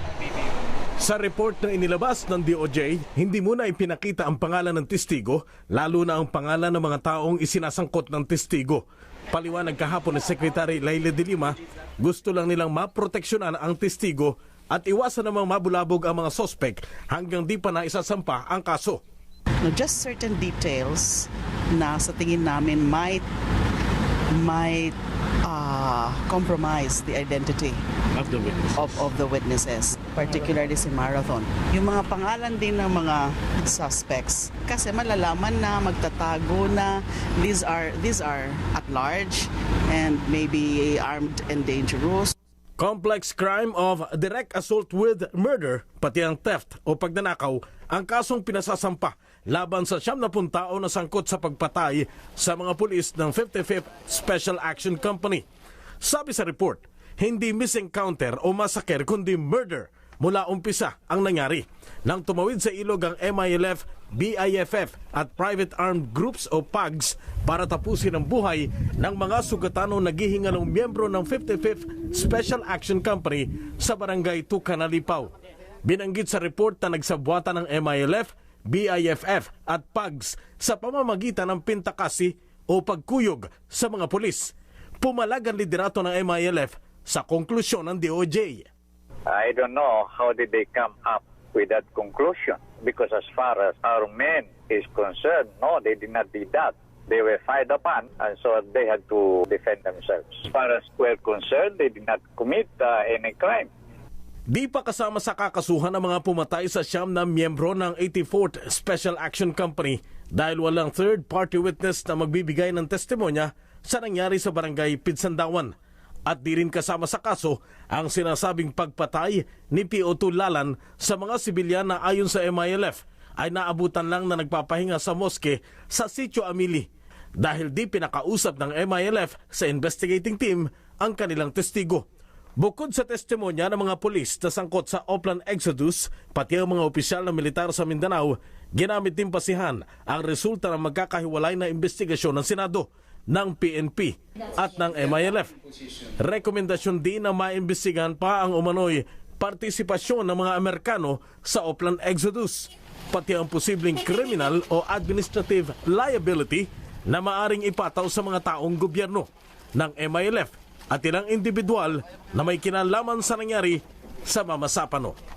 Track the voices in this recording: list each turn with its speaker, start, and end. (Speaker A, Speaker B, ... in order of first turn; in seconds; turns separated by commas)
Speaker A: 1.0-19.0, Speaker B: 19.6-23.2, Speaker B: 24.3-27.8, Speaker A: 28.1-28.7, Speaker B: 28.7-42.3, Speaker A: 42.8-55.4, Speaker A: 56.0-75.3, Speaker A: 75.8-88.7, Speaker C: 89.3-103.7, Speaker A: 104.5-115.7, Speaker A: 116.3-126.9, Speaker A: 127.4-132.0, Speaker A: 132.6-145.5, Speaker A: 146.2-165.2